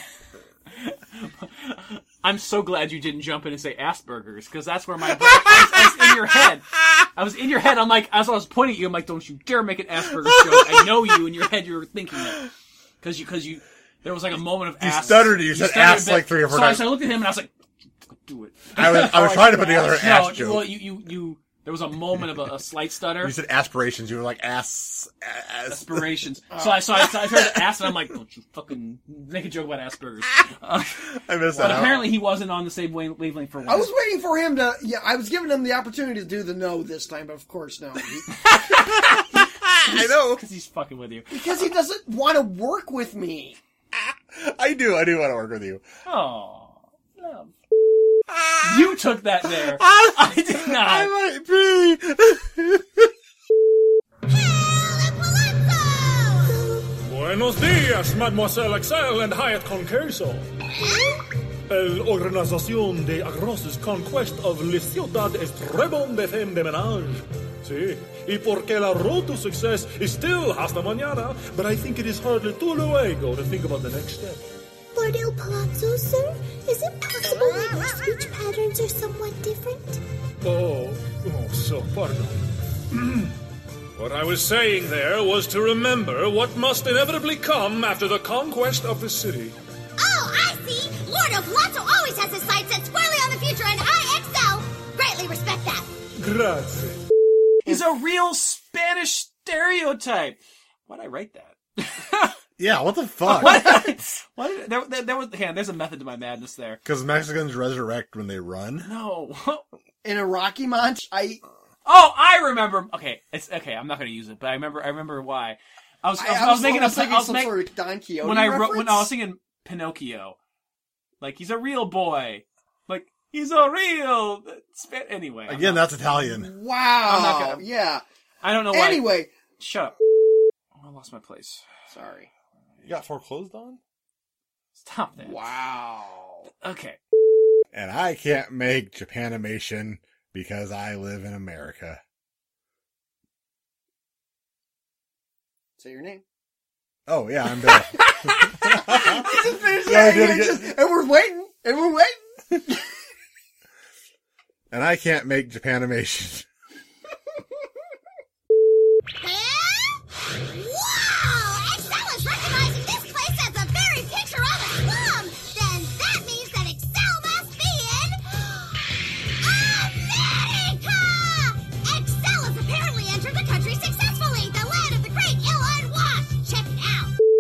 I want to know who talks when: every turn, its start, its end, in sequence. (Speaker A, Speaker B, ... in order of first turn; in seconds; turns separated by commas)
Speaker A: 0.8-12.5, Speaker A: 13.0-17.5, Speaker B: 14.8-17.0, Speaker A: 18.2-23.4, Speaker B: 18.8-20.8, Speaker B: 23.2-26.1, Speaker A: 25.7-33.9, Speaker B: 31.1-32.2, Speaker C: 33.7-38.3, Speaker A: 38.5-41.4, Speaker B: 39.0-40.4, Speaker C: 41.3-43.6, Speaker B: 43.9-45.8, Speaker A: 46.0-47.5, Speaker B: 48.3-49.0, Speaker A: 48.6-51.1, Speaker B: 49.6-53.1, Speaker D: 54.3-56.8, Speaker E: 57.0-60.5, Speaker D: 60.9-61.1, Speaker E: 61.7-74.5, Speaker F: 75.0-80.0, Speaker E: 80.4-83.4, Speaker E: 84.0-89.6, Speaker D: 90.0-95.9, Speaker E: 96.2-97.0, Speaker A: 97.7-102.3, Speaker B: 102.6-103.9, Speaker A: 103.3-106.8, Speaker B: 106.8-108.9, Speaker A: 108.8-109.7, Speaker C: 110.0-111.4, Speaker A: 111.8-117.6, Speaker C: 116.2-119.1, Speaker A: 118.2-120.4, Speaker A: 121.2-125.9, Speaker B: 125.5-126.5, Speaker C: 126.2-128.0, Speaker A: 127.1-127.7, Speaker A: 128.4-129.9, Speaker C: 128.7-129.3, Speaker A: 130.8-131.6, Speaker C: 131.9-132.3, Speaker B: 132.8-133.8, Speaker A: 134.8-135.5, Speaker C: 135.2-136.5, Speaker A: 136.6-137.0, Speaker B: 137.7-142.0, Speaker C: 145.8-146.2, Speaker B: 147.1-150.8, Speaker C: 148.6-152.2, Speaker B: 154.7-156.5, Speaker D: 159.2-177.1